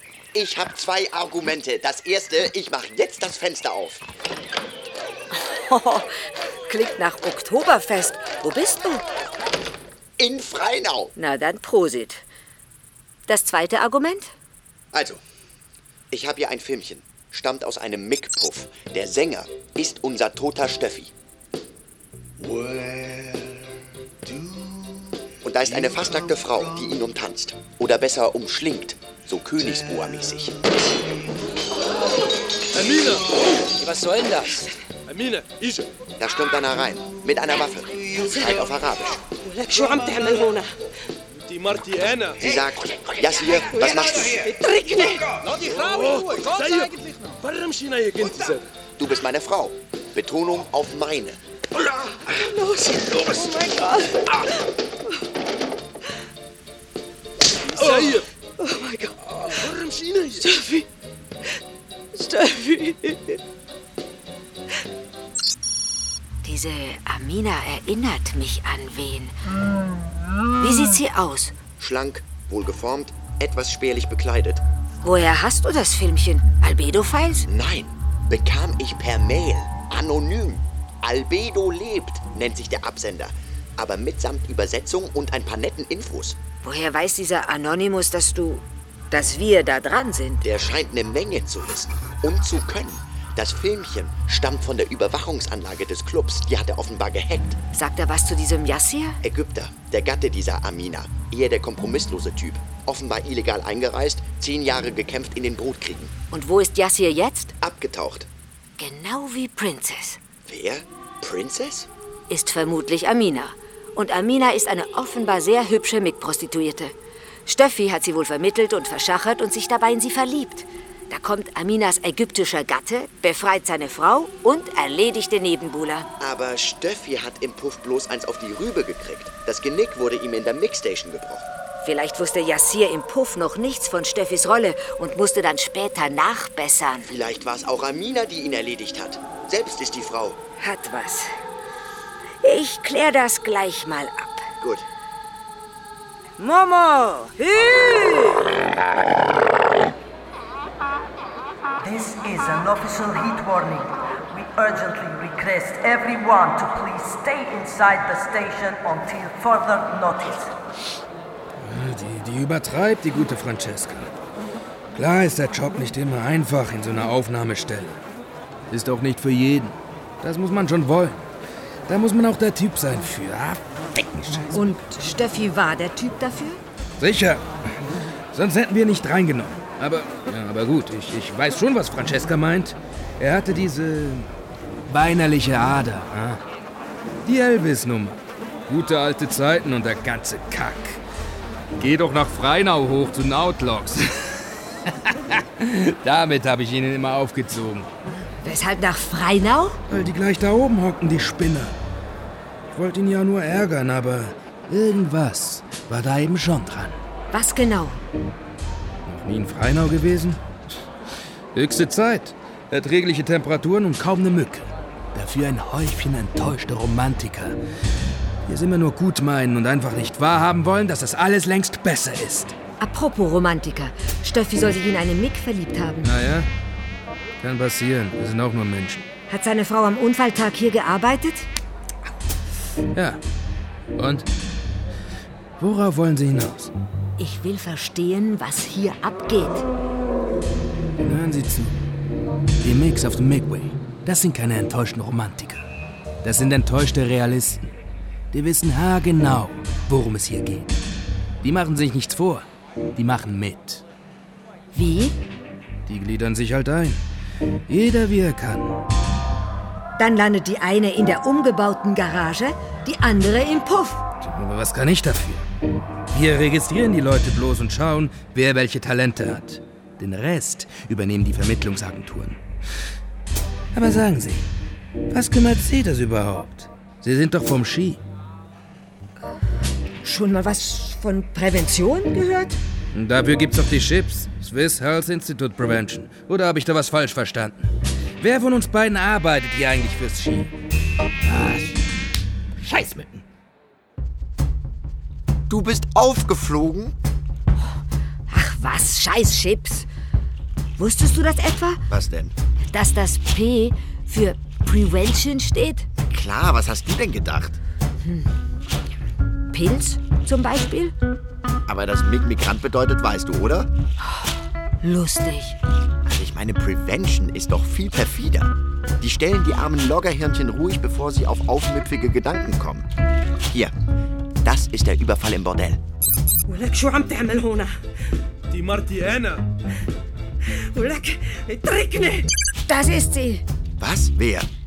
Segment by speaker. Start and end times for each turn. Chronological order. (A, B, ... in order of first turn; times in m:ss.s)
0:00.3-0:04.0 A
0:05.3-0:09.0 B
0:10.2-0:11.1 A
0:11.2-0:12.2 B
0:13.3-0:14.3 B
0:14.9-0:15.2 A
0:16.1-0:21.1 A
0:25.4-0:30.6 A
0:32.7-0:33.9 C
0:35.1-0:35.9 C
0:36.2-0:39.2 A
0:39.4-0:40.7 D
0:41.5-0:42.5 C
0:42.4-0:44.5 A
0:43.8-0:45.4 D
0:45.3-0:48.7 C
0:49.0-0:51.4 A
0:52.3-0:54.2 D
0:53.1-0:53.5 C
0:57.8-0:59.6 D
0:57.8-0:58.3 C
0:59.5-1:00.5 C
1:00.4-1:00.8 D
1:02.2-1:03.2 D
1:06.4-1:09.4 B
1:10.6-1:11.6 B
1:11.8-1:14.6 A
1:15.0-1:17.5 B
1:17.5-1:26.4 A
1:26.6-1:30.4 B
1:30.4-1:37.6 A
1:37.7-1:39.2 B
1:39.2-1:46.1 A
1:46.3-1:47.5 B
1:47.6-1:48.3 A
1:48.8-1:50.2 B
1:50.5-1:51.9 A
1:52.3-1:56.9 B
1:57.5-2:06.1 B
2:06.2-2:11.5 A
2:11.8-2:17.1 B
2:17.1-2:20.4 A
2:20.6-2:21.3 B
2:22.4-2:24.5 B
2:24.6-2:24.9 A
2:27.4-2:28.2 B
2:31.8-2:40.5 E
2:41.6-2:44.1 F
2:45.0-2:48.0 F
2:48.7-2:51.2 F
2:51.9-2:54.5 F
2:54.5-2:56.6 B
2:57.0-2:57.5 F
2:58.3-3:04.3 F
3:04.9-3:06.4 F
3:07.2-3:11.0 F
3:11.8-3:17.9 F
3:18.4-3:19.8 B
3:19.9-3:21.8 F
3:22.7-3:27.0 F
3:27.3-3:28.0 B
3:29.1-3:30.4 F
3:31.6-3:37.6 F
3:38.5-3:42.6 F
3:42.8-3:46.1 B
3:46.0-3:46.5 F
3:47.4-3:49.0 F
3:49.3-3:51.5 B
3:53.0-3:53.2 F
3:54.0-3:54.3 F
3:55.6-3:56.7 F
3:57.2-3:59.6 B
4:01.0-4:01.7 F
4:02.6-4:05.6 F
4:06.2-4:07.7 F
4:08.3-4:10.7 F
4:11.4-4:13.8 F
4:14.7-4:15.2 B
4:15.9-4:17.0 F
4:17.7-4:18.8 F
4:20.0-4:24.0 B
4:24.2-4:25.4 F
4:26.1-4:32.4 F
4:33.7-4:34.5 F
4:35.1-4:38.0 F
4:40.0-4:42.6 B
4:42.9-4:47.7 F
4:48.2-4:50.5 F
4:51.2-4:51.8 F
4:52.6-4:53.2 F
4:55.5-4:57.0 A
4:58.3-4:59.9 B
5:00.8-5:01.8 B
5:01.9-5:02.3 A
5:02.7-5:05.9 B
5:06.1-5:07.6 A
5:08.0-5:08.3 B
5:09.5-5:10.9 B
5:11.7-5:13.7 A
5:14.8-5:15.6 B
5:16.0-5:22.9 A
5:24.4-5:25.8 A
5:26.5-5:27.8 D
5:28.5-5:29.4 C
5:30.7-5:32.3 D
5:32.7-5:33.4 B
5:33.8-5:34.5 A